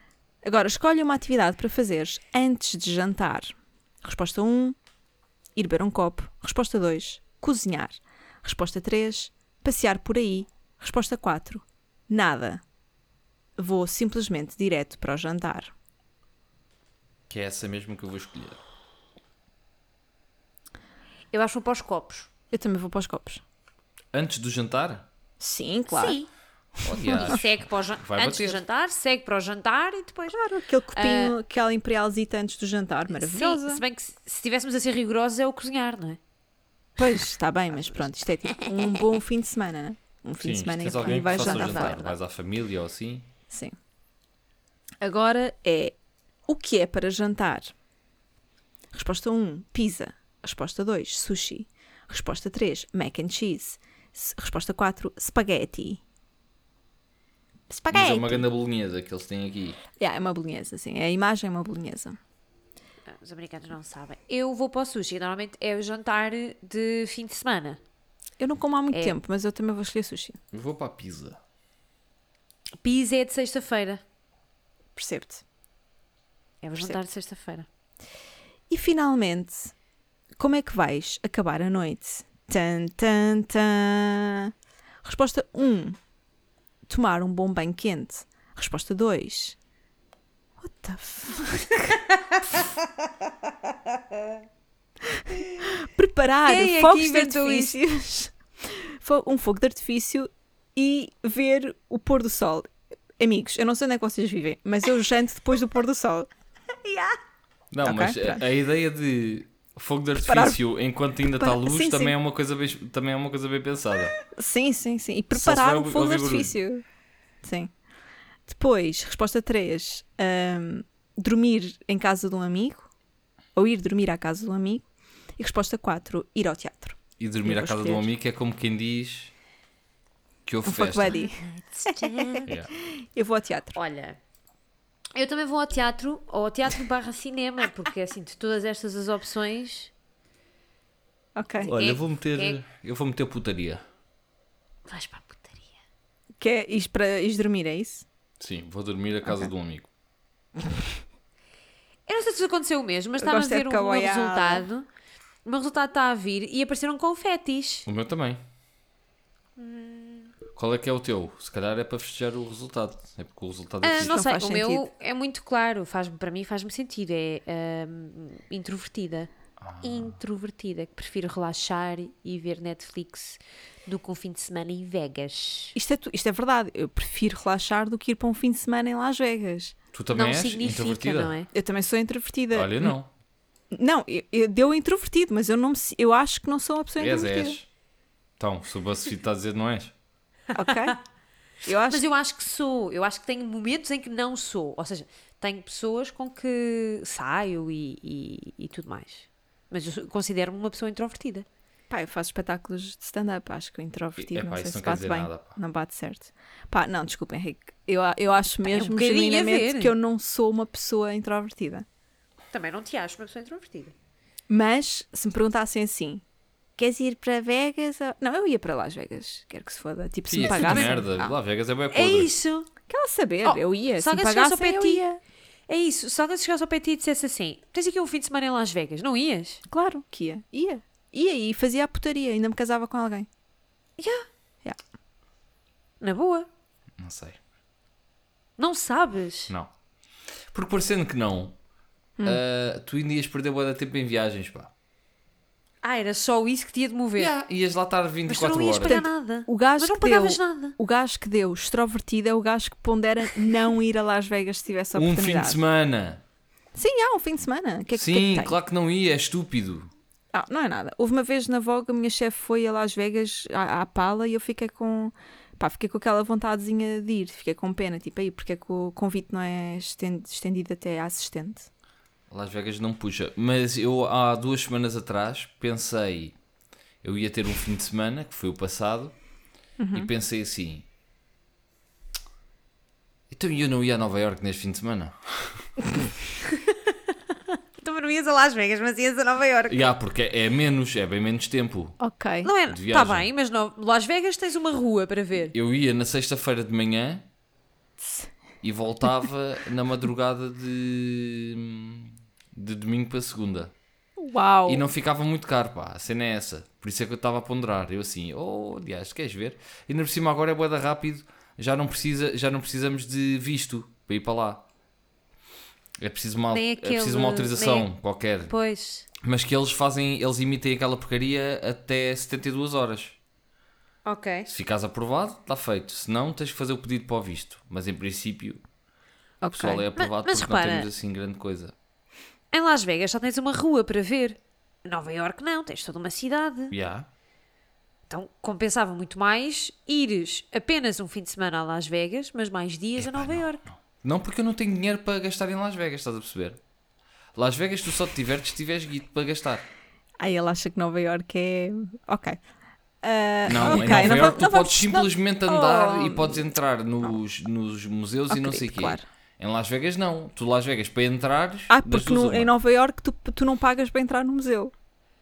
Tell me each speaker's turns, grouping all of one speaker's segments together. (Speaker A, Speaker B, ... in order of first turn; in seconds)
Speaker A: 0.4-4.8, 5.5-12.6, 13.6-15.7, 22.5-23.4, 25.4-26.2, 30.3-33.8, 37.0-42.1, 43.5-43.8, 45.0-46.0, 46.5-47.7, 48.9-56.0, 57.7-58.5, 60.0-62.2, 68.4-70.4, 75.0-75.4, 78.7-79.7, 80.3-84.5, 85.0-86.0, 86.9-89.6, 90.6-92.0, 95.1-106.3, 106.8-107.2, 107.8-108.4, 110.1-110.6, 111.2-112.1, 114.2-116.8, 117.4-117.7, 118.5-122.9, 123.5-124.8, 125.4-128.1, 130.6-133.8, 141.3-141.7, 146.4-148.1, 149.2-149.5, 153.2-154.6, 163.9-164.9, 175.7-179.7, 181.5-182.9, 183.7-187.6, 190.5-191.0, 191.6-192.0, 201.9-211.8, 214.5-216.2, 216.8-221.3, 222.9-225.2, 229.7-233.3, 248.8-255.6, 256.7-258.5, 260.3-271.7, 279.8-280.1, 292.0-292.5, 298.0-298.3, 304.2-304.9, 329.4-329.8, 350.2-352.4, 353.0-356.5, 358.3-359.0, 361.7-364.7
Speaker B: 17.3-18.6, 24.1-25.1, 26.8-28.6, 40.4-43.2, 57.9-59.8, 70.5-71.4, 107.7-114.2, 115.3-116.5, 127.2-129.3, 130.4-131.2, 132.5-132.7, 141.7-143.8, 148.4-149.9, 157.9-158.4, 160.6-164.2, 169.6-170.2, 179.9-181.3, 182.5-183.1, 187.0-187.7, 188.4-189.9, 204.2-205.6, 220.3-222.3, 237.0-237.4, 240.5-241.6, 242.2-244.7, 247.2-249.0, 254.9-256.2, 257.9-259.9, 272.3-276.3, 277.0-279.1, 279.9-280.8, 283.3-285.7, 289.7-292.0, 292.7-293.3, 295.5-297.3, 298.6-303.7, 304.7-314.6, 316.0-318.5, 319.2-323.2, 324.5-328.6, 329.5-331.7, 336.7-337.1, 343.0-346.6, 347.4-349.6, 353.4-362.5
Speaker C: 21.3-22.3, 25.9-26.3, 27.0-30.4, 30.9-31.4, 33.1-36.2, 41.1-42.1, 63.1-67.8, 72.8-74.0, 76.6-77.7, 96.5-97.8, 131.1-132.5, 133.7-134.2, 135.1-139.9, 141.6-142.6, 144.9-145.7, 152.1-154.9, 155.4-157.8, 159.6-160.3, 163.8-169.3, 169.8-175.8, 180.1-181.5, 190.7-191.0, 191.9-201.4, 208.6-209.9, 212.5-213.9, 220.4-220.9, 221.9-222.7, 223.4-225.0, 225.7-229.6, 234.0-234.2, 236.0-236.5, 238.6-239.5, 245.8-247.3, 248.3-250.8, 287.8-289.9, 292.4-295.5, 316.5-317.9, 318.5-319.1, 324.0-324.5, 329.9-330.9, 332.5-336.7, 338.1-343.6